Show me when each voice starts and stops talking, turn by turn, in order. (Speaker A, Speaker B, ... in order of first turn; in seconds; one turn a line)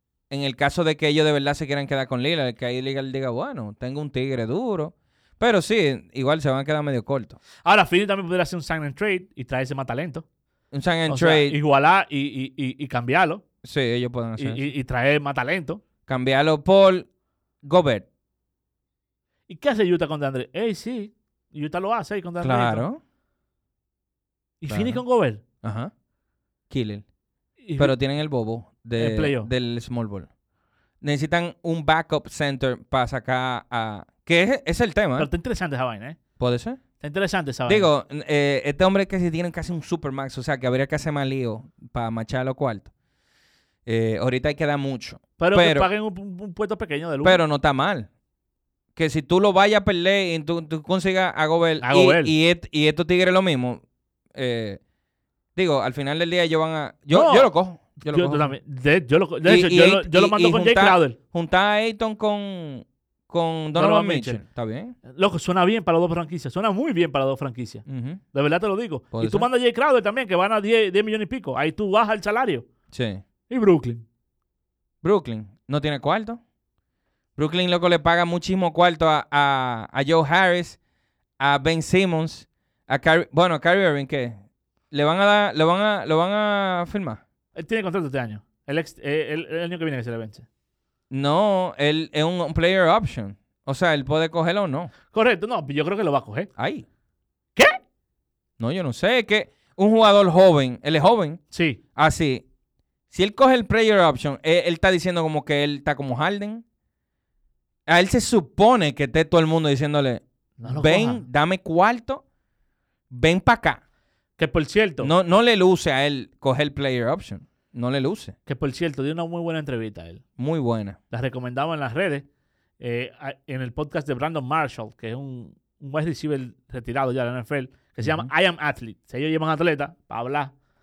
Speaker A: 0.3-7.4
Speaker B: 7.7-10.2
Speaker A: 10.7-11.6
Speaker B: 11.1-13.4
Speaker A: 13.6-14.7
Speaker B: 14.4-15.8
Speaker A: 16.1-17.1
Speaker A: 17.6-18.1
Speaker B: 19.5-22.9
Speaker A: 22.4-23.0
Speaker B: 24.6-25.4
Speaker A: 24.7-25.0
Speaker A: 25.6-25.9
Speaker A: 26.7-27.0
Speaker B: 27.6-27.9
Speaker A: 27.8-30.3
Speaker B: 29.0-29.5
Speaker A: 31.0-35.3
Speaker B: 35.2-36.2
Speaker A: 36.4-36.8
Speaker B: 37.0-37.9
Speaker A: 37.7-42.9
Speaker A: 43.9-45.9
Speaker B: 45.4-47.4
Speaker A: 47.2-48.1
Speaker A: 49.0-53.8
Speaker B: 51.8-52.3
Speaker A: 54.3-54.8
Speaker A: 55.6-58.5
Speaker B: 57.1-61.2
Speaker A: 59.5-65.0
Speaker B: 63.8-64.4
Speaker B: 65.1-72.7
Speaker A: 67.9-68.2
Speaker A: 69.1-69.5
Speaker A: 72.9-73.2
Speaker B: 73.5-74.0
Speaker A: 75.0-76.4
Speaker A: 77.4-80.8
Speaker A: 81.4-84.4
Speaker A: 84.9-87.2
Speaker B: 87.6-90.5
Speaker A: 91.1-94.9
Speaker B: 95.1-96.5
Speaker A: 96.6-96.9
Speaker A: 98.6-101.4
Speaker B: 101.5-101.8
Speaker A: 102.0-102.5
Speaker A: 103.1-106.6
Speaker A: 107.9-112.2
Speaker B: 110.6-111.2
Speaker A: 113.1-113.8
Speaker B: 114.4-115.1
Speaker A: 115.0-118.3
Speaker B: 118.5-120.2
Speaker A: 120.4-121.0
Speaker B: 121.1-122.2
Speaker B: 122.8-130.5
Speaker A: 128.0-128.3